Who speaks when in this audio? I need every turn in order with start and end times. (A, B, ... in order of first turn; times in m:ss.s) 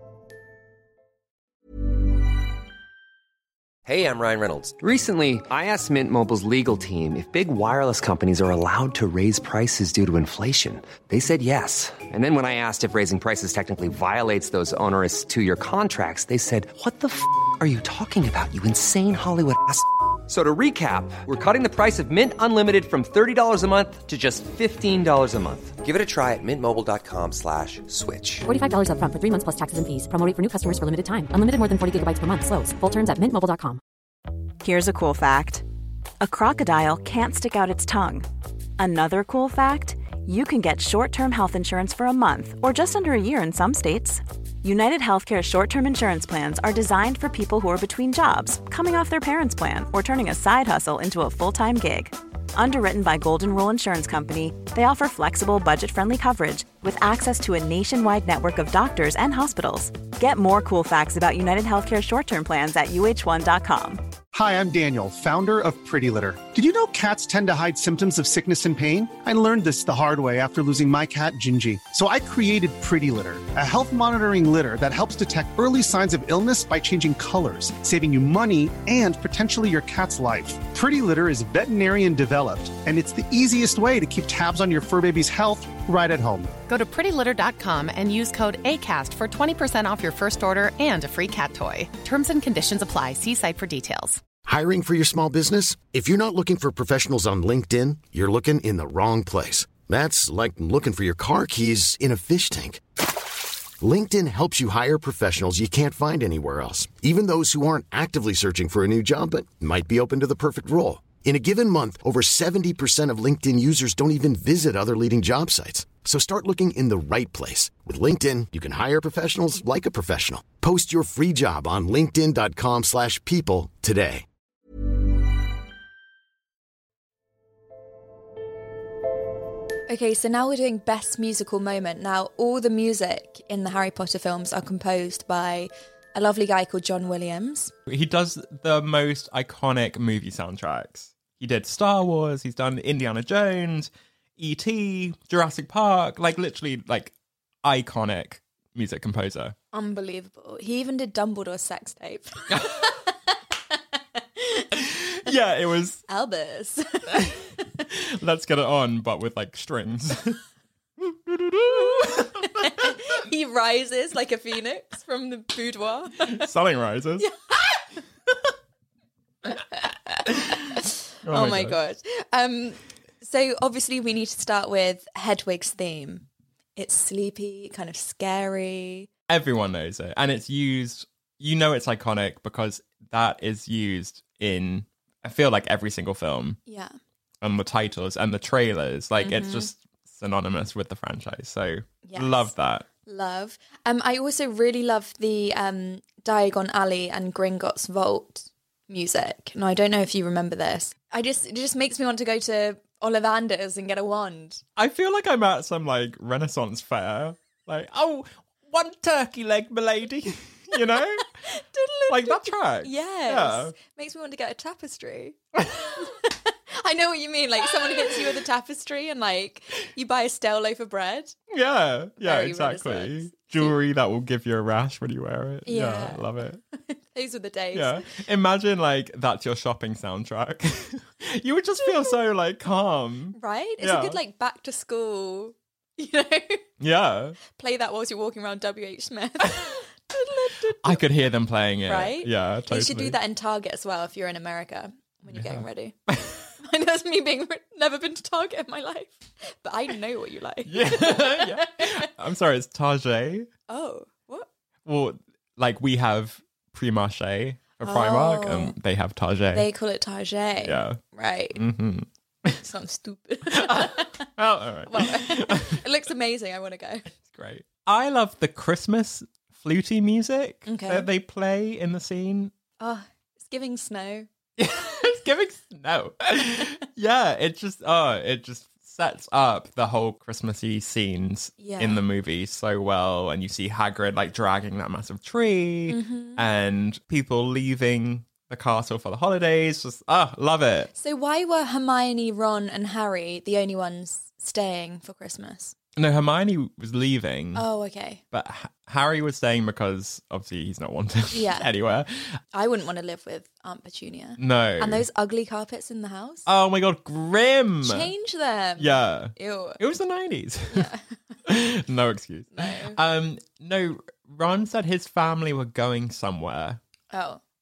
0:03.9-0:28.5 A
0:28.4-0:33.8 B
0:34.6-0:35.7 C
0:36.2-1:04.0 C
1:04.3-1:26.5 D
1:26.7-1:34.2 E
1:34.4-1:42.8 F
1:43.8-2:04.2 F
2:09.9-2:17.7 G
2:17.9-2:27.1 H
2:27.6-2:29.6 H
2:29.7-2:33.1 G
2:32.5-2:32.8 H
2:33.7-2:34.6 G
2:34.7-2:36.0 H
2:36.1-2:37.4 G
2:37.1-2:40.4 H
2:41.0-2:42.9 H
2:41.7-2:46.5 G
2:46.3-2:47.3 H
2:47.2-2:47.8 G
2:49.5-2:59.1 G
2:51.2-2:51.8 H
2:59.3-3:06.6 H
3:06.7-3:06.9 G
3:07.4-3:12.9 H
3:09.2-3:09.7 G
3:12.0-3:24.6 G
3:24.8-3:31.3 H
3:31.2-3:41.4 G
3:32.1-3:33.7 H
3:35.6-3:35.9 H
3:41.5-3:46.6 H
3:42.2-3:43.8 G
3:45.7-3:46.2 G
3:46.8-3:48.0 G
3:47.7-3:54.2 H
3:51.9-3:52.1 G
3:53.4-3:56.7 G
3:56.8-3:57.4 H
3:57.5-4:01.0 G
4:00.8-4:03.2 H
4:01.9-4:06.0 G
4:05.3-4:06.4 H
4:06.6-4:12.1 G
4:10.7-4:13.5 H
4:13.7-4:14.5 G
4:14.9-4:19.7 H
4:17.8-4:18.8 G
4:19.5-4:21.6 G
4:20.6-4:21.0 H
4:21.6-4:22.6 H
4:22.6-4:24.3 G
4:23.5-4:25.8 H
4:24.9-4:27.1 G
4:27.2-4:32.5 H
4:30.7-4:31.1 G
4:32.8-4:34.3 G
4:34.6-4:50.9 H
4:41.6-4:42.0 G
4:45.9-4:46.4 G
4:51.0-4:55.8 G
4:56.0-4:57.7 H
4:57.6-4:58.2 G
4:58.3-5:02.4 H
5:01.3-5:01.7 G
5:02.5-5:06.4 G
5:04.4-5:05.0 H
5:06.5-5:08.1 H
5:07.8-5:09.8 G
5:08.8-5:10.9 H
5:10.7-5:11.0 G
5:11.5-5:16.8 H
5:12.6-5:13.0 G
5:17.1-5:17.4 G